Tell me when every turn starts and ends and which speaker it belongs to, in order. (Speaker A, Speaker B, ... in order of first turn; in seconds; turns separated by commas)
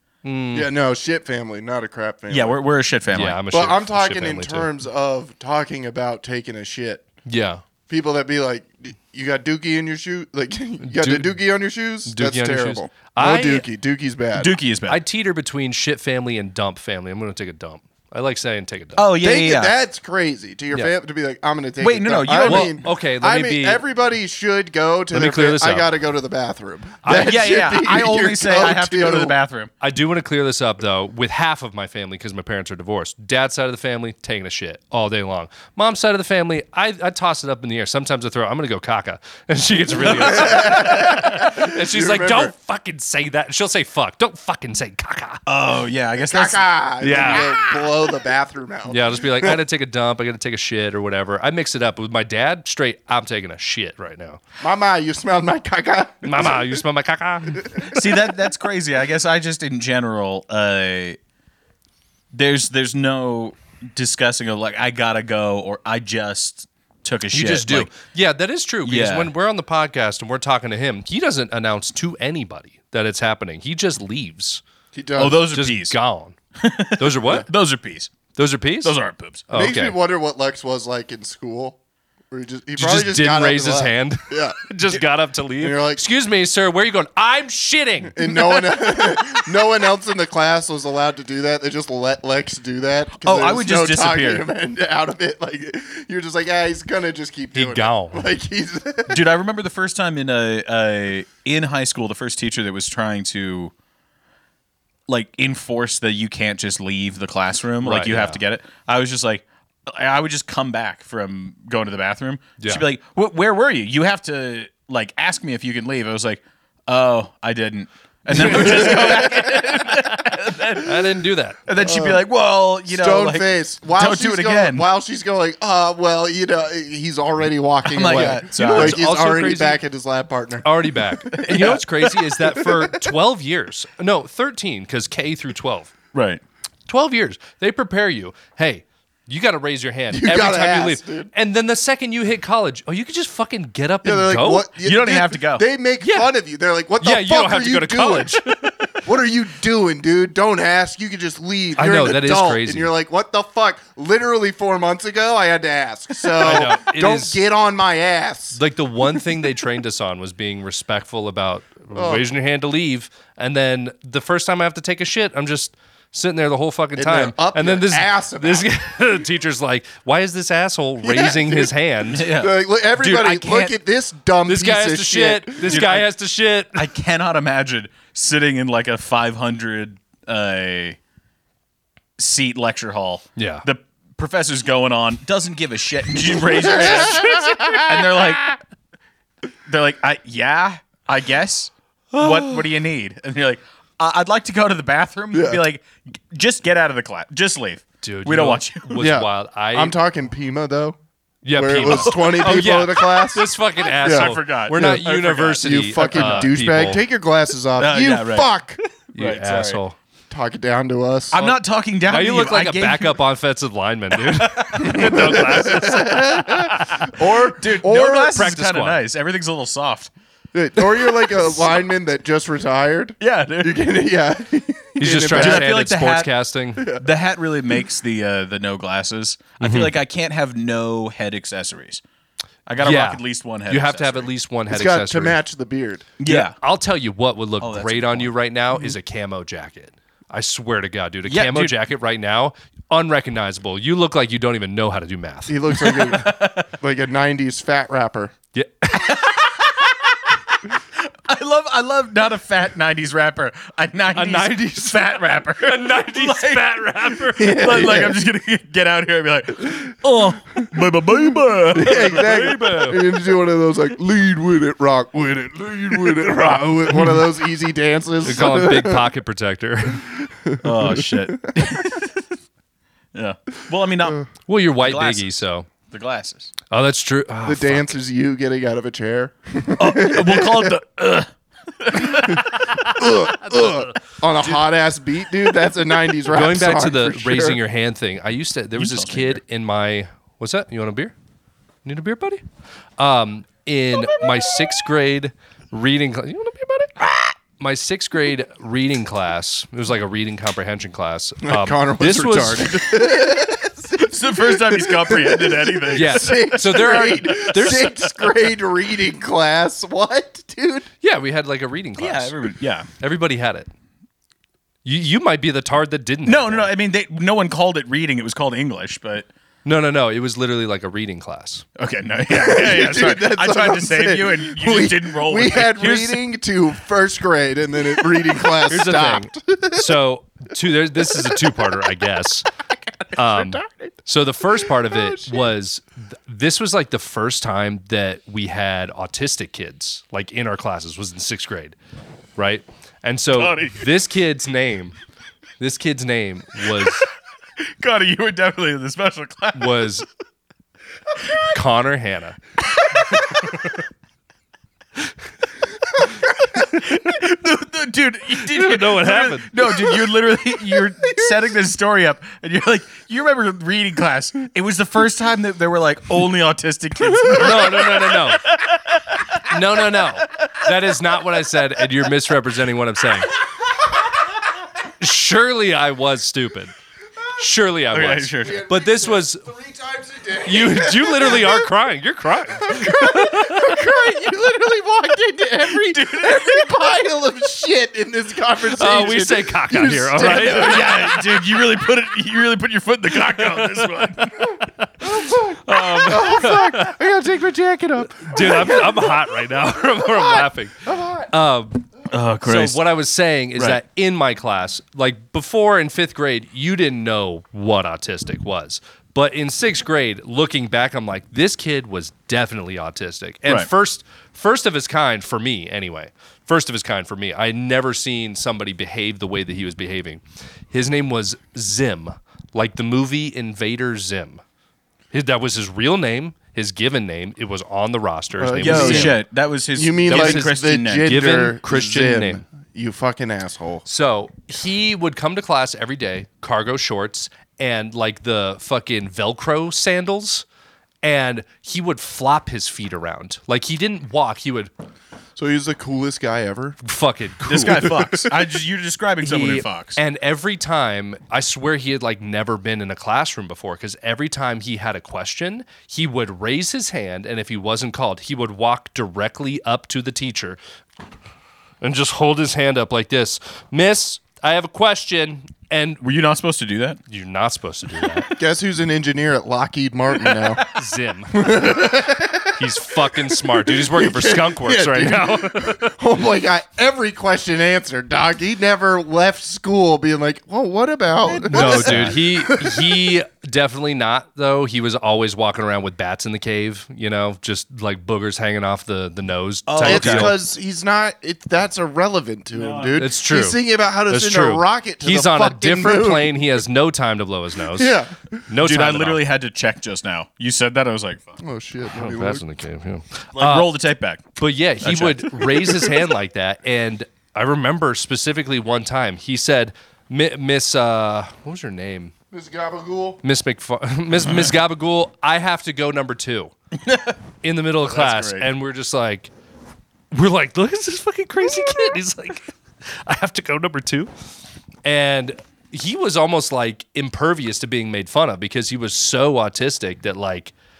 Speaker A: 0.2-0.7, Speaker B: 0.5-2.6, Speaker C: 2.3-3.4, Speaker A: 3.1-4.7, Speaker B: 3.5-7.0, Speaker A: 7.3-7.6, Speaker B: 7.9-14.5, Speaker A: 10.8-11.3, Speaker A: 12.1-13.7, Speaker C: 14.3-15.0, Speaker A: 14.9-19.1, Speaker C: 19.0-19.8, Speaker B: 19.2-29.3, Speaker C: 21.8-22.8, Speaker A: 22.4-23.8, Speaker A: 25.1-25.9, Speaker A: 27.0-27.3, Speaker C: 27.1-29.7, Speaker A: 29.8-45.4, Speaker B: 40.0-42.5, Speaker C: 45.5-46.6, Speaker B: 46.3-49.6, Speaker A: 47.0-47.6, Speaker A: 48.9-54.4, Speaker B: 54.6-56.8, Speaker A: 56.2-57.9, Speaker B: 57.6-58.0, Speaker C: 57.9-61.2, Speaker C: 62.3-67.9, Speaker A: 67.3-74.6, Speaker C: 68.8-69.3, Speaker B: 74.9-75.5, Speaker C: 75.2-76.0, Speaker A: 75.5-76.4, Speaker C: 76.6-78.1, Speaker A: 77.0-77.5, Speaker A: 78.4-79.0, Speaker C: 78.8-79.5, Speaker A: 79.5-80.0, Speaker B: 79.5-81.8, Speaker B: 82.3-85.0, Speaker A: 82.8-88.7, Speaker B: 85.6-86.0, Speaker B: 88.1-99.2, Speaker C: 93.2-94.5, Speaker A: 97.5-98.3, Speaker C: 99.1-103.7, Speaker C: 105.1-121.1, Speaker A: 107.8-108.4, Speaker A: 112.6-112.8, Speaker A: 118.3-119.3, Speaker B: 118.3-119.8, Speaker A: 120.8-121.6, Speaker C: 121.7-124.9, Speaker B: 121.8-122.3, Speaker B: 122.9-131.3, Speaker C: 127.8-129.1, Speaker A: 128.1-129.8, Speaker A: 130.6-135.9, Speaker C: 131.3-132.2, Speaker B: 132.6-132.9, Speaker C: 136.1-136.4, Speaker A: 136.9-144.7, Speaker B: 140.1-141.3, Speaker B: 144.0-148.4, Speaker C: 144.8-145.7, Speaker A: 146.0-146.3, Speaker A: 147.0-148.5, Speaker B: 149.0-158.6, Speaker A: 151.8-152.9, Speaker A: 156.4-157.4, Speaker A: 158.6-172.3, Speaker B: 161.9-162.3, Speaker B: 167.0-168.7, Speaker B: 171.0-175.9, Speaker C: 172.1-173.8, Speaker A: 174.5-176.9, Speaker C: 175.7-176.1, Speaker C: 176.8-181.0, Speaker C: 182.2-188.6, Speaker A: 183.4-183.7, Speaker B: 186.5-188.3, Speaker C: 189.7-199.0, Speaker A: 192.1-192.6, Speaker B: 195.3-195.6, Speaker A: 198.0-200.0, Speaker B: 199.0-201.0, Speaker A: 201.4-207.0, Speaker B: 201.6-203.5, Speaker C: 201.9-202.8, Speaker C: 204.0-206.5, Speaker B: 204.0-208.8, Speaker C: 207.8-208.6, Speaker C: 209.2-209.8, Speaker A: 209.2-210.0, Speaker B: 210.3-211.6, Speaker C: 211.3-213.2, Speaker A: 212.1-217.1, Speaker C: 214.2-215.9, Speaker B: 214.8-218.4, Speaker C: 216.6-220.1, Speaker A: 218.3-219.0, Speaker B: 220.5-225.7, Speaker C: 221.1-221.3, Speaker C: 223.2-223.8, Speaker A: 225.0-226.9, Speaker C: 225.3-226.3, Speaker B: 226.8-227.0, Speaker C: 227.0-232.0, Speaker A: 229.6-229.9, Speaker C: 232.7-234.3, Speaker A: 232.8-235.4, Speaker B: 234.7-236.1, Speaker C: 236.2-236.6, Speaker A: 236.2-246.0, Speaker C: 237.6-238.3, Speaker C: 241.3-241.8, Speaker B: 245.5-248.3, Speaker C: 245.9-246.7, Speaker A: 248.5-249.4, Speaker C: 249.0-250.2, Speaker C: 251.0-256.7, Speaker A: 254.1-257.9, Speaker B: 257.4-258.2, Speaker C: 257.4-262.1, Speaker B: 261.7-269.1, Speaker A: 261.9-263.0, Speaker A: 268.2-270.1, Speaker B: 270.3-271.6, Speaker C: 270.6-272.1, Speaker C: 273.1-274.3, Speaker A: 274.5-275.7, Speaker C: 274.8-276.5, Speaker A: 276.7-278.0, Speaker B: 277.4-280.8, Speaker C: 279.8-282.8, Speaker B: 282.2-287.6, Speaker A: 283.5-283.9, Speaker A: 286.3-291.1, Speaker C: 288.8-289.4, Speaker A: 291.9-292.4, Speaker A: 293.0-297.1, Speaker A: 297.6-302.9, Speaker B: 301.4-310.9, Speaker C: 304.0-307.9, Speaker A: 305.9-308.1, Speaker A: 311.0-312.4, Speaker C: 312.0-312.9, Speaker A: 313.0-313.7, Speaker A: 314.9-316.7, Speaker C: 316.3-319.3, Speaker A: 319.6-321.6, Speaker C: 321.8-326.2, Speaker B: 322.3-330.0, Speaker A: 328.7-332.5, Speaker B: 331.2-331.7, Speaker B: 333.0-333.9, Speaker A: 333.1-341.8, Speaker B: 334.6-335.5, Speaker A: 342.4-344.9, Speaker C: 343.3-343.9, Speaker A: 345.6-347.1, Speaker C: 347.8-349.9, Speaker A: 349.6-350.1, Speaker A: 351.5-352.4, Speaker A: 353.2-353.7, Speaker C: 356.6-369.4, Speaker A: 358.4-359.5, Speaker A: 367.3-368.5, Speaker A: 369.5-373.3, Speaker A: 375.0-376.7, Speaker A: 377.4-379.4, Speaker C: 377.9-378.7, Speaker B: 378.4-381.7, Speaker A: 380.4-383.8, Speaker B: 382.5-391.6, Speaker C: 385.6-386.8, Speaker A: 388.7-390.9, Speaker C: 390.2-394.6, Speaker A: 393.3-396.9, Speaker B: 395.0-399.3, Speaker C: 395.8-396.2, Speaker A: 398.1-401.9, Speaker B: 400.0-401.3, Speaker C: 402.1-402.8, Speaker A: 402.4-424.4, Speaker A: 425.1-429.2, Speaker B: 428.4-429.2, Speaker C: 428.6-431.1, Speaker B: 429.8-433.8, Speaker A: 430.1-432.4, Speaker A: 433.9-440.4, Speaker A: 441.0-444.7, Speaker B: 445.4-446.8, Speaker A: 446.8-448.1, Speaker C: 447.5-450.0, Speaker B: 447.8-448.1, Speaker A: 449.2-460.6, Speaker A: 461.8-466.0, Speaker C: 466.0-467.0, Speaker A: 467.1-468.3, Speaker B: 468.4-470.6, Speaker C: 470.2-470.6, Speaker A: 470.7-471.7, Speaker B: 471.3-472.6, Speaker A: 472.6-475.9, Speaker B: 473.5-483.1, Speaker C: 481.2-482.2, Speaker A: 481.5-490.4, Speaker C: 489.7-490.4, Speaker B: 489.8-496.4, Speaker C: 492.5-493.0, Speaker A: 493.0-499.2, Speaker B: 497.7-498.4, Speaker C: 498.6-501.4, Speaker B: 501.4-502.4, Speaker A: 501.9-503.7, Speaker C: 503.3-505.9, Speaker A: 504.4-512.1, Speaker B: 512.3-513.2, Speaker A: 513.2-516.5, Speaker C: 516.8-517.2, Speaker A: 517.4-519.3, Speaker C: 517.9-518.5, Speaker A: 520.1-524.1, Speaker A: 524.9-530.5